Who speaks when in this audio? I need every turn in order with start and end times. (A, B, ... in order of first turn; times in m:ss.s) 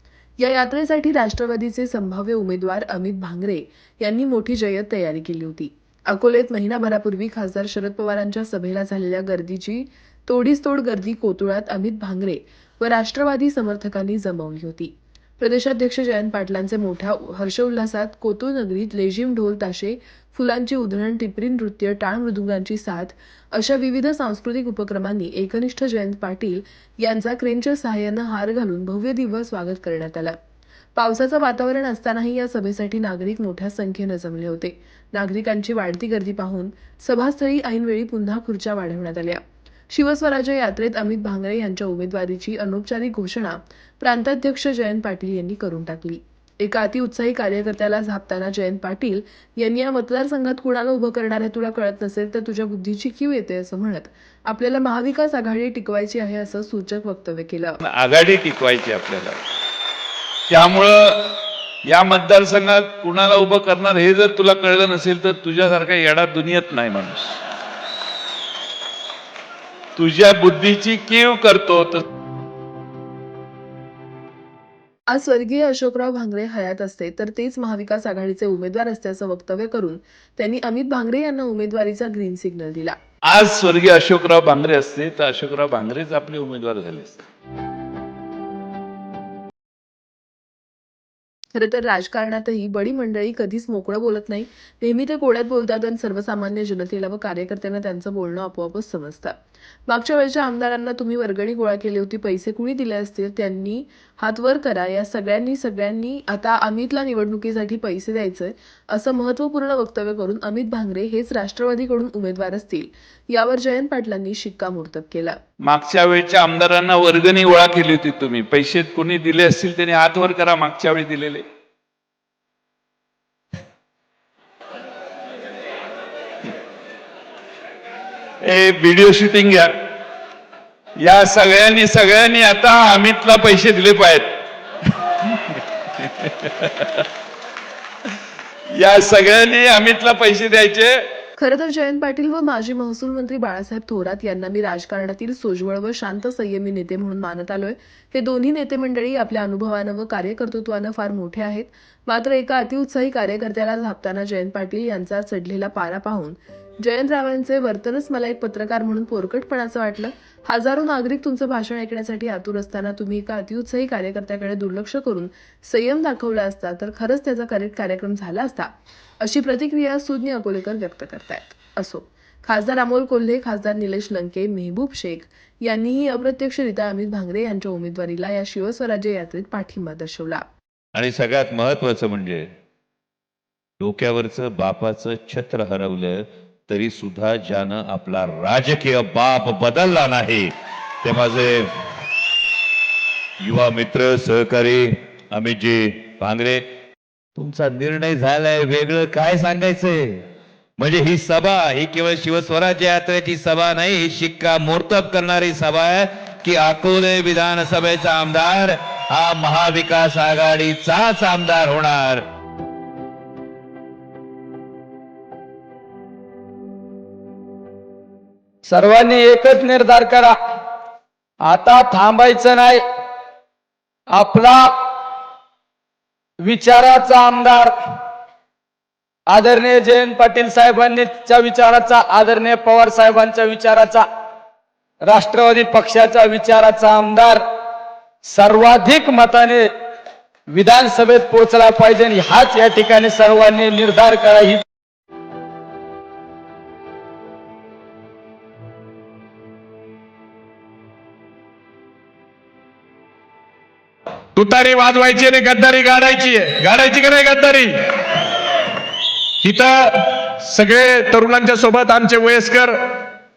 0:00.4-0:30.3 A
0:31.0-0:57.8 A
0:57.8-0:59.4 B
1:00.5-1:07.4 B
1:10.0-1:12.0 B
1:15.1-1:23.0 A
1:23.3-1:27.2 B
1:31.5-1:39.3 A
1:39.9-1:55.4 A
1:55.6-2:01.4 B
2:08.4-2:09.7 B
2:11.0-2:14.3 B
2:16.0-2:16.9 B
2:18.7-2:21.0 B
2:21.4-2:48.7 A
2:49.2-3:00.4 A
3:00.9-3:02.5 C
3:03.8-3:11.7 C
3:13.4-3:16.6 C
3:17.4-3:20.2 C
3:20.8-3:32.2 C
3:38.6-3:40.4 D
3:41.4-3:42.8 D
3:44.1-3:44.9 D
3:46.4-3:48.0 D
3:49.3-3:54.1 D
3:55.0-3:57.4 D
3:58.2-3:59.7 D
4:00.5-4:04.6 D
4:14.4-4:17.7 E
4:19.4-4:22.7 E